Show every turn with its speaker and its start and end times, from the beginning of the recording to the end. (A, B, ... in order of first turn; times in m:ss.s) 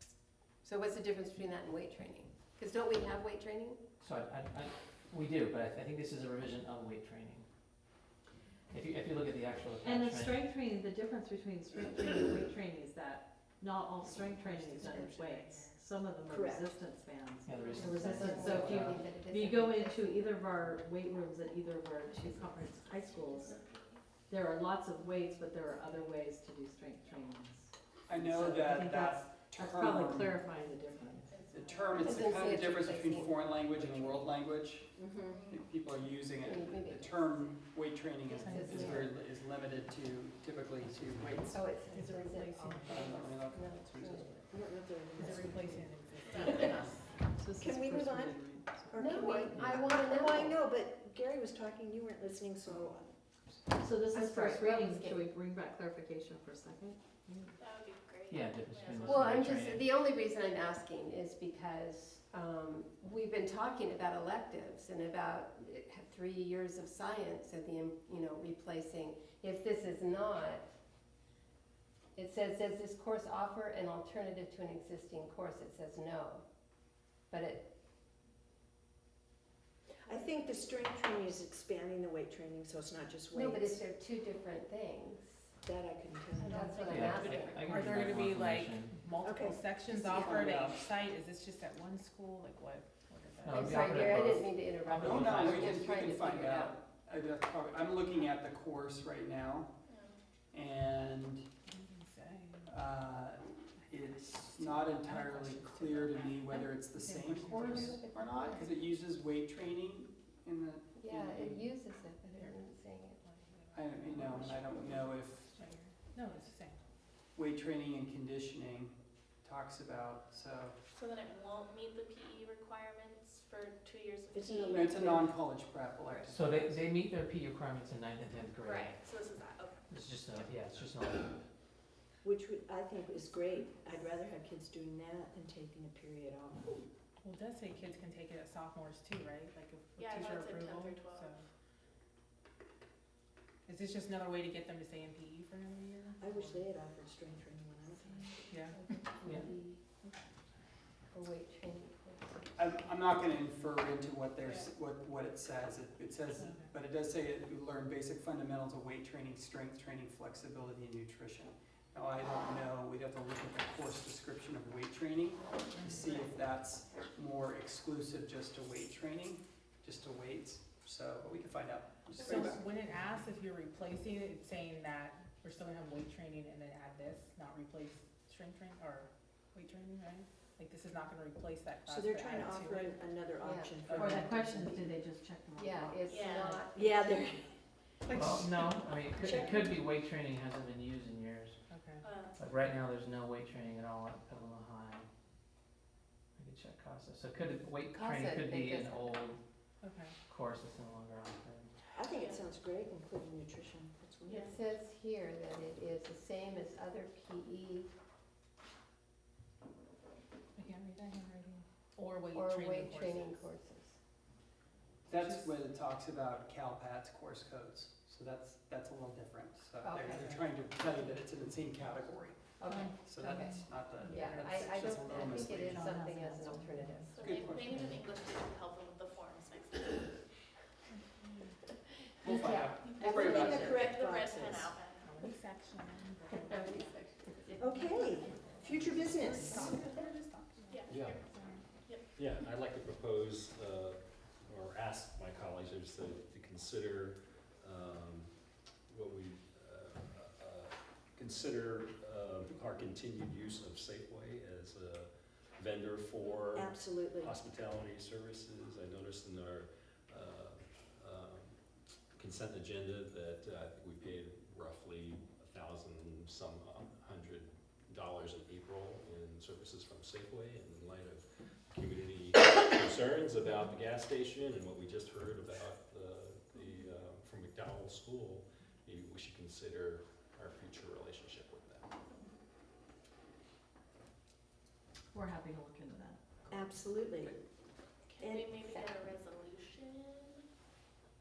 0:00.6-0:03.8 A
0:04.0-0:07.5 B
0:08.7-0:10.4 B
0:09.8-0:23.6 C
0:14.3-0:15.7 D
0:16.3-0:16.8 D
0:17.4-0:19.0 B
0:17.8-0:20.4 A
0:18.6-0:18.9 E
0:23.1-0:23.8 F
0:24.3-0:27.7 C
0:28.1-0:30.4 E
0:28.3-0:31.4 C
0:31.5-0:41.6 E
0:31.9-0:34.1 A
0:35.0-0:35.5 D
0:35.2-0:35.6 F
0:36.4-0:37.6 A
0:38.2-0:39.1 A
0:38.4-0:39.0 C
0:41.4-0:44.4 A
0:41.9-0:43.0 C
0:42.8-0:44.5 E
0:44.5-0:45.9 D
0:45.2-0:49.5 C
0:46.2-0:47.0 F
0:47.6-0:53.1 D
0:49.0-0:50.6 A
0:53.7-0:57.5 C
0:54.1-0:55.2 A
0:57.6-0:59.4 F
0:58.3-0:59.9 B
0:59.0-1:10.6 A
1:12.2-1:16.4 A
1:17.3-1:17.7 A
1:20.0-1:23.8 D
1:23.3-1:25.5 A
1:25.6-1:27.1 D
1:26.4-1:28.2 A
1:26.7-1:31.1 C
1:26.8-1:29.0 B
1:27.7-1:29.5 G
1:29.2-1:30.8 D
1:31.1-1:33.6 G
1:32.9-1:34.0 C
1:33.4-1:36.0 B
1:33.5-1:36.7 A
1:34.9-1:39.7 E
1:39.9-1:40.2 F
1:40.5-1:41.4 E
1:41.7-1:42.6 G
1:42.7-1:51.7 E
1:44.5-1:48.7 C
1:47.0-1:47.3 G
1:47.4-1:48.7 A
1:51.0-1:53.2 A
1:53.2-1:54.6 C
1:53.7-1:55.6 E
1:55.6-1:56.2 C
1:56.2-1:56.8 G
1:57.3-2:00.8 E
2:00.9-2:05.2 F
2:04.3-2:05.3 D
2:04.7-2:06.9 E
2:06.3-2:09.0 B
2:08.6-2:10.5 F
2:09.9-2:11.4 B
2:12.2-2:16.8 D
2:17.2-2:21.5 G
2:20.0-2:21.2 C
2:20.0-2:21.3 F
2:23.7-2:26.2 G
2:26.2-2:26.6 C
2:26.2-2:28.6 D
2:28.7-2:29.8 A
2:29.2-2:29.5 B
2:31.1-2:32.6 A
2:32.6-2:52.6 E
2:52.2-2:52.6 C
2:52.6-3:02.8 G
3:01.9-3:05.0 D
3:02.0-3:02.8 C
3:03.4-3:04.1 A
3:03.9-3:06.1 C
3:05.6-3:07.2 A
3:06.1-3:06.6 F
3:06.7-3:07.5 D
3:08.1-3:08.5 D
3:08.1-3:11.6 B
3:09.1-3:09.8 D
3:11.7-3:12.0 G
3:12.0-3:12.4 F
3:12.4-3:15.1 B
3:16.4-3:19.4 B
3:17.9-3:19.2 A
3:19.8-3:20.2 G
3:20.3-3:21.7 B
3:21.9-3:24.6 D
3:22.0-3:22.4 F
3:24.3-3:24.6 F
3:24.4-3:27.9 A
3:30.6-3:32.2 G
3:32.0-3:33.4 C
3:32.3-3:34.0 A
3:35.1-3:42.5 E
3:35.2-3:35.4 C
3:39.8-3:40.3 A
3:40.2-3:40.4 C
3:42.6-3:47.6 A
3:42.7-3:47.2 C
3:43.0-3:45.9 E
3:47.1-3:50.2 F
3:47.2-3:48.1 E
3:52.2-3:53.8 E
3:52.2-3:53.8 A
3:52.9-3:55.0 F
3:53.0-3:54.8 D
3:55.1-3:56.8 G
3:56.0-3:56.9 C
3:56.3-3:58.1 A
3:57.6-4:00.0 D
3:58.4-4:00.8 C
4:00.2-4:00.5 G
4:00.7-4:01.3 F
4:00.9-4:01.2 H
4:02.2-4:08.3 H
4:08.9-4:21.6 H
4:16.5-4:17.4 D
4:22.2-4:41.9 H
4:45.1-4:46.2 C
4:46.5-4:47.4 D
4:48.1-4:50.4 F
4:48.2-4:48.7 D